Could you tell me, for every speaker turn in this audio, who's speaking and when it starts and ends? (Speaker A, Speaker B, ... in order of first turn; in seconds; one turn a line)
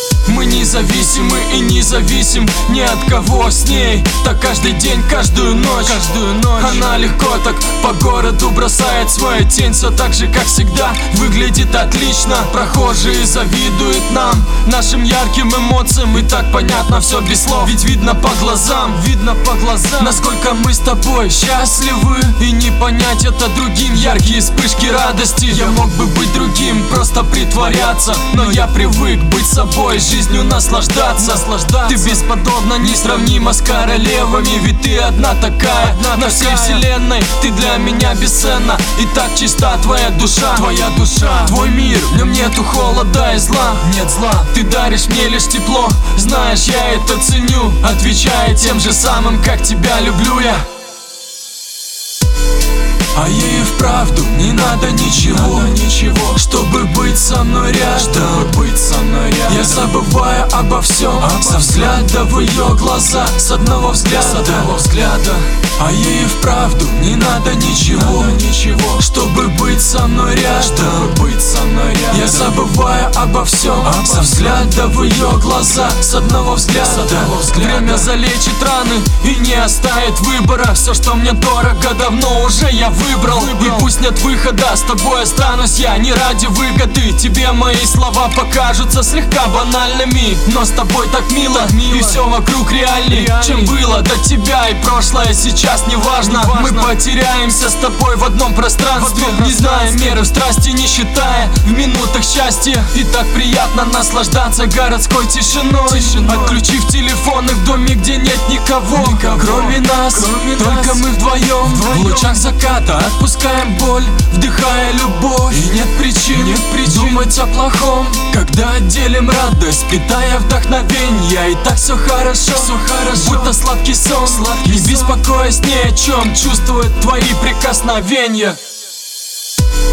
Speaker A: 0.2-50.7
Speaker A: 53.1-128.6